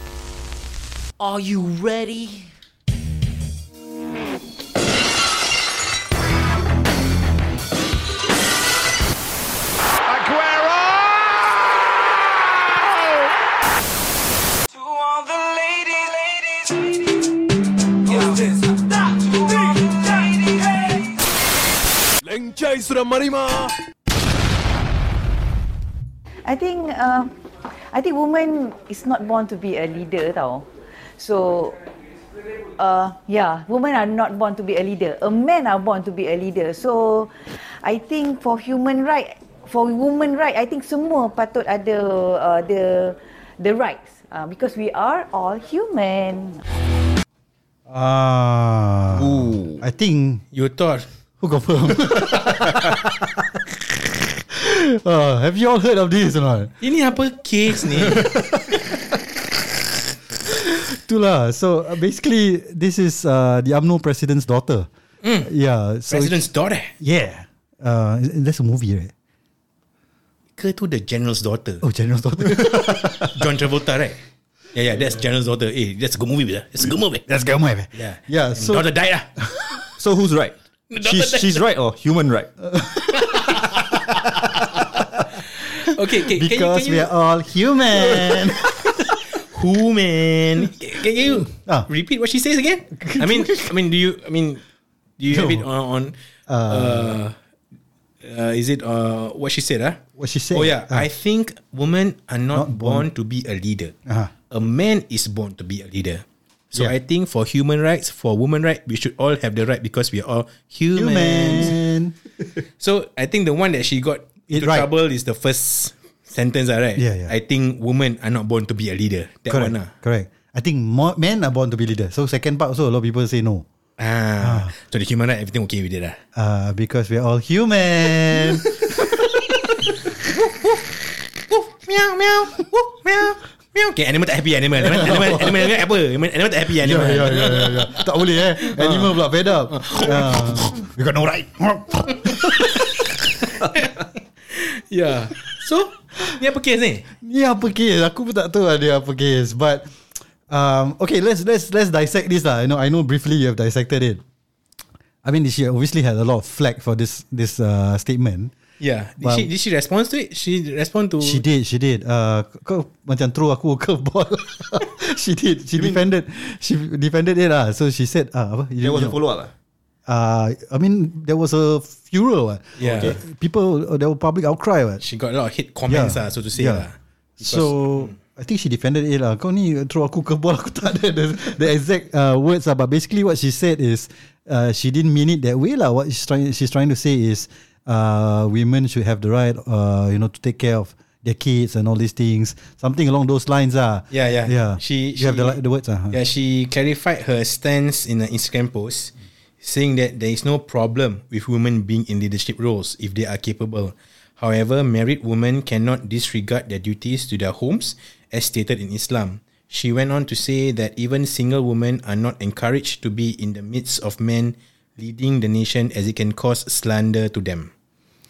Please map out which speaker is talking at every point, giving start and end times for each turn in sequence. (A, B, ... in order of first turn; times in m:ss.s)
0:01.2-0:02.4 A
0:10.1-0:11.4 B
0:15.2-0:15.7 B
0:18.0-0:21.1 B
0:22.2-0:23.7 B
0:26.5-0:27.3 C
0:27.9-0:31.8 C
0:32.8-0:46.6 C
0:47.9-0:50.4 D
0:49.1-0:49.8 E
0:50.5-0:51.1 A
0:51.4-0:53.6 D
0:54.5-0:56.8 D
0:56.8-0:58.2 A
0:58.0-0:59.0 D
1:00.5-1:04.9 D
1:05.2-1:05.5 A
1:05.4-1:06.4 D
1:06.1-1:06.9 A
1:07.0-1:09.1 D
1:10.6-1:11.8 A
1:11.8-1:13.3 D
1:12.5-1:14.2 A
1:14.7-1:17.2 A
1:17.3-1:19.8 D
1:17.9-1:19.3 A
1:20.0-1:22.5 E
1:20.9-1:21.6 A
1:22.8-1:24.3 D
1:23.2-1:24.2 A
1:25.8-1:27.1 A
1:26.3-1:28.7 D
1:29.4-1:34.6 A
1:31.4-1:31.9 D
1:32.9-1:33.7 D
1:35.2-1:36.1 A
1:35.3-1:35.7 D
1:36.5-1:37.2 D
1:36.7-1:37.4 A
1:38.2-1:44.0 A
1:40.2-1:41.1 D
1:42.5-1:43.1 D
1:44.1-1:44.3 D
1:44.5-1:51.8 A
1:50.9-1:52.2 D
1:52.8-1:59.9 A
1:54.5-1:54.9 D
1:57.0-1:57.3 D
1:59.5-2:03.6 D
2:04.0-2:06.2 A
2:04.4-2:04.7 D
2:06.4-2:09.2 D
2:11.5-2:18.1 A
2:14.8-2:15.7 D
2:16.8-2:22.9 D
2:18.6-2:19.2 A
2:19.7-2:20.8 A
2:22.2-2:22.9 A
2:23.6-2:24.0 A
2:24.5-2:27.1 A
2:27.2-2:34.2 D
2:35.2-2:38.5 D
2:38.8-2:41.4 A
2:39.2-2:39.5 D
2:41.2-2:49.2 D
2:45.8-2:46.0 E
2:48.8-2:49.5 E
2:50.1-2:55.0 D
2:52.8-2:53.2 A
2:52.8-2:53.2 E
2:55.0-2:58.1 A
2:55.9-2:56.9 D
2:57.4-3:16.2 D
3:14.1-3:15.6 A
3:16.1-3:37.7 A